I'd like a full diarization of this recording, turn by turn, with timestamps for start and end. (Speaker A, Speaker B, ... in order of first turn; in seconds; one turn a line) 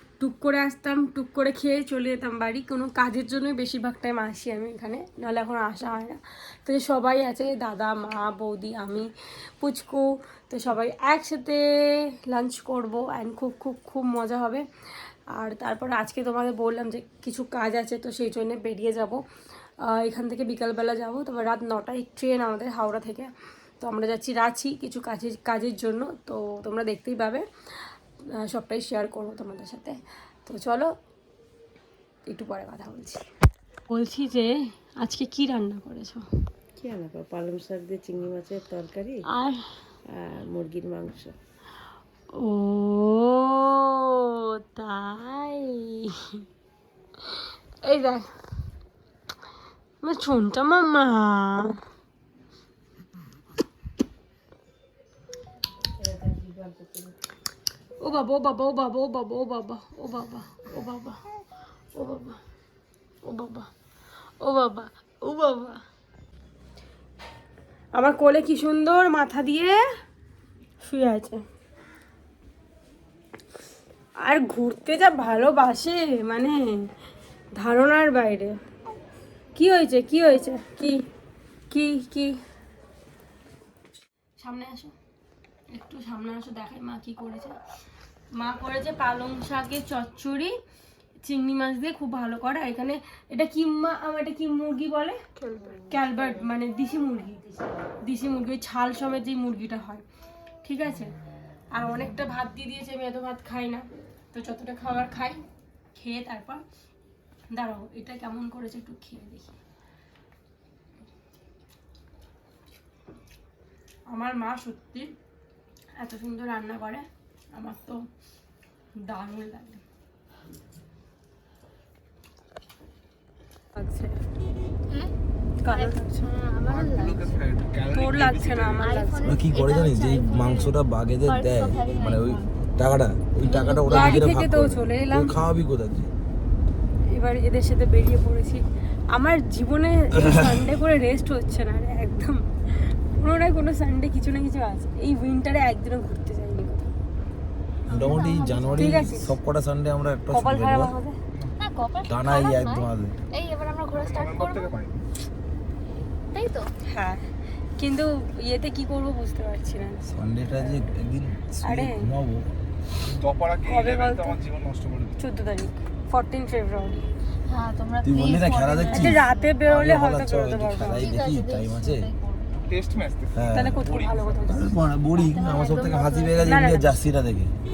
Speaker A: 0.2-19.2
Speaker A: 19.9-30.9
Speaker A: 32.3-33.3
Speaker A: 33.9-36.3
Speaker B: 36.8-39.2
Speaker A: 39.3-39.7
Speaker B: 40.1-41.4
Speaker A: 42.3-46.3
Speaker A: 47.8-48.3
Speaker A: 50.0-51.8
Speaker B: 56.0-57.1
Speaker A: 58.0-61.2
Speaker A: 61.9-62.4
Speaker A: 63.2-63.7
Speaker A: 64.4-65.8
Speaker A: 67.9-69.8
Speaker A: 70.8-71.4
Speaker A: 74.2-76.9
Speaker A: 77.5-78.6
Speaker A: 79.5-81.0
Speaker A: 81.7-82.4
Speaker A: 84.4-84.9
Speaker A: 85.7-87.6
Speaker A: 88.3-90.5
Speaker A: 91.2-95.2
Speaker C: 95.4-95.7
Speaker A: 95.8-100.0
Speaker A: 100.6-101.1
Speaker A: 101.7-105.4
Speaker A: 106.0-106.6
Speaker A: 107.5-109.5
Speaker A: 114.1-115.1
Speaker A: 116.0-118.1
Speaker A: 119.0-119.8
Speaker A: 123.8-124.2
Speaker A: 125.6-126.3
Speaker C: 125.7-127.4
Speaker D: 126.6-128.9
Speaker A: 127.9-129.2
Speaker C: 128.8-130.7
Speaker E: 129.2-136.1
Speaker C: 131.3-132.5
Speaker C: 133.4-134.3
Speaker A: 133.9-135.4
Speaker A: 137.1-146.9
Speaker E: 140.2-140.6
Speaker E: 147.9-150.9
Speaker C: 147.9-148.8
Speaker A: 148.7-149.4
Speaker A: 150.3-151.2
Speaker C: 151.6-154.7
Speaker E: 152.1-153.2
Speaker D: 153.9-155.0
Speaker C: 156.3-156.7
Speaker A: 156.9-157.3
Speaker A: 157.8-160.9
Speaker E: 160.1-162.5
Speaker A: 161.7-162.1
Speaker D: 163.0-165.2
Speaker A: 163.7-164.4
Speaker A: 165.2-167.1
Speaker C: 167.5-169.5
Speaker E: 168.0-172.1
Speaker A: 168.9-171.1
Speaker C: 171.0-172.6
Speaker D: 172.7-174.5
Speaker E: 173.4-173.8
Speaker A: 173.5-174.7
Speaker E: 174.5-177.6
Speaker C: 175.2-176.4
Speaker A: 176.4-176.9